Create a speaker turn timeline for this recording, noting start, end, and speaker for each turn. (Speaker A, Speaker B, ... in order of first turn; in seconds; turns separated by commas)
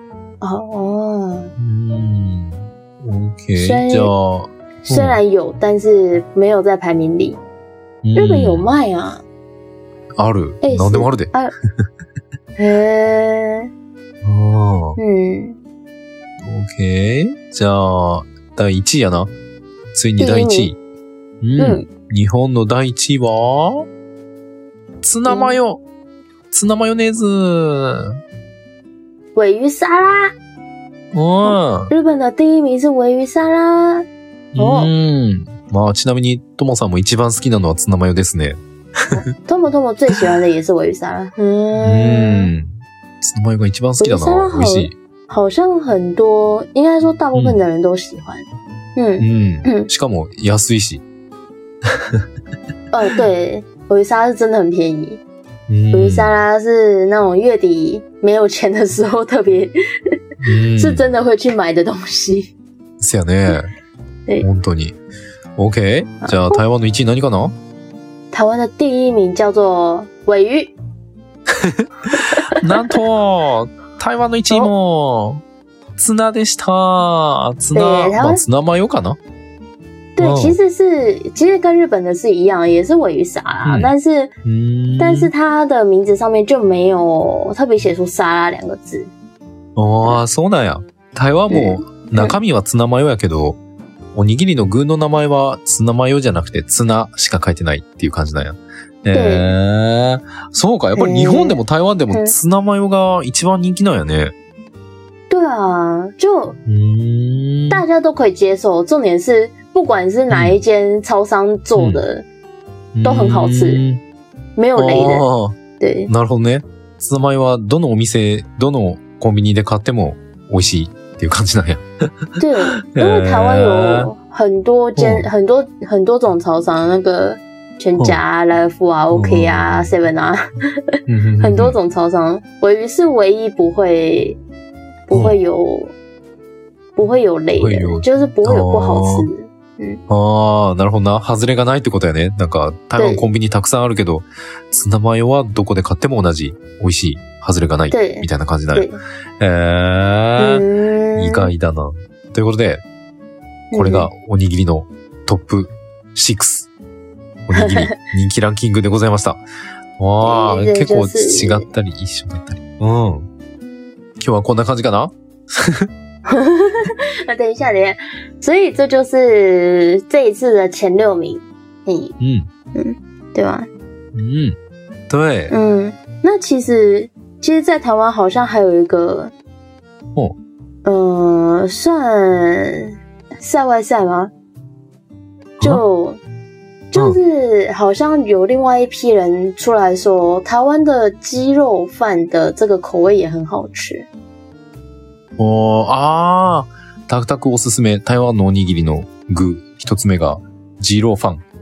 Speaker A: 0.4-1.5, Speaker B: 1.6-5.2, Speaker A: 3.5-4.1, Speaker A: 4.8-7.4, Speaker B: 8.0-8.7, Speaker A: 8.2-9.2, Speaker B: 10.2-11.9, Speaker A: 10.6-11.5, Speaker A: 12.6-13.7, Speaker B: 14.2-15.0, Speaker A: 15.0-15.6, Speaker B: 16.4-19.3, Speaker B: 19.9-20.8, Speaker A: 20.2-20.7, Speaker B: 21.4-23.9, Speaker A: 21.6-21.9, Speaker B: 25.0-25.8, Speaker A: 25.3-25.6, Speaker B: 26.5-28.2, Speaker A: 29.4-30.3, Speaker B: 31.1-31.9, Speaker A: 31.4-34.0, Speaker B: 34.5-39.2, Speaker A: 34.6-34.9, Speaker A: 39.1-42.5, Speaker B: 41.8-44.9, Speaker A: 44.0-49.9, Speaker B: 47.3-47.6, Speaker B: 49.2-51.0, Speaker B: 51.9-52.2, Speaker A: 52.9-55.2, Speaker B: 55.7-56.3, Speaker A: 55.9-59.7, Speaker B: 60.4-61.1, Speaker A: 60.8-62.5, Speaker B: 63.0-63.7, Speaker B: 64.4-65.0, Speaker B: 65.6-67.5, Speaker A: 66.2-66.6, Speaker A: 68.3-70.7, Speaker B: 71.5-71.9, Speaker A: 72.1-73.0, Speaker B: 72.5-75.4, Speaker B: 76.0-79.2, Speaker A: 77.7-78.4, Speaker A: 80.2-84.3, Speaker B: 80.2-80.6, Speaker B: 83.6-83.9, Speaker B: 84.4-85.3, Speaker A: 85.0-89.1, Speaker B: 89.8-93.6, Speaker A: 91.5-92.4, Speaker B: 94.1-104.3, Speaker A: 99.1-99.5, Speaker A: 101.0-101.6, Speaker A: 105.3-106.6, Speaker B: 106.7-107.8, Speaker A: 107.7-112.2, Speaker B: 110.3-110.6, Speaker B: 111.7-112.0, Speaker B: 112.9-114.0, Speaker A: 113.0-113.8, Speaker A: 114.6-115.2, Speaker B: 114.8-115.6, Speaker A: 115.8-116.1, Speaker B: 116.1-122.1, Speaker A: 122.4-130.4, Speaker B: 122.9-124.1, Speaker B: 125.0-125.3, Speaker B: 129.1-129.9, Speaker A: 130.9-134.4, Speaker B: 131.1-131.8, Speaker A: 135.1-135.9, Speaker A: 136.9-140.0, Speaker B: 137.5-139.3, Speaker B: 140.1-148.9, Speaker A: 142.9-143.3, Speaker A: 147.9-149.0, Speaker B: 149.4-150.6, Speaker A: 150.4-151.5, Speaker B: 151.2-152.8, Speaker A: 153.7-154.1, Speaker B: 153.7-156.7, Speaker B: 157.5-159.4, Speaker A: 157.5-157.9, Speaker B: 160.0-163.3, Speaker A: 160.2-161.7, Speaker B: 164.2-165.9, Speaker A: 166.3-172.1, Speaker B: 172.2-172.5, Speaker A: 172.7-173.7, Speaker B: 174.1-174.6, Speaker B: 175.1-175.5, Speaker A: 175.5-179.3, Speaker A: 180.8-184.3, Speaker A: 185.6-186.2, Speaker A: 186.9-194.1, Speaker B: 195.4-201.4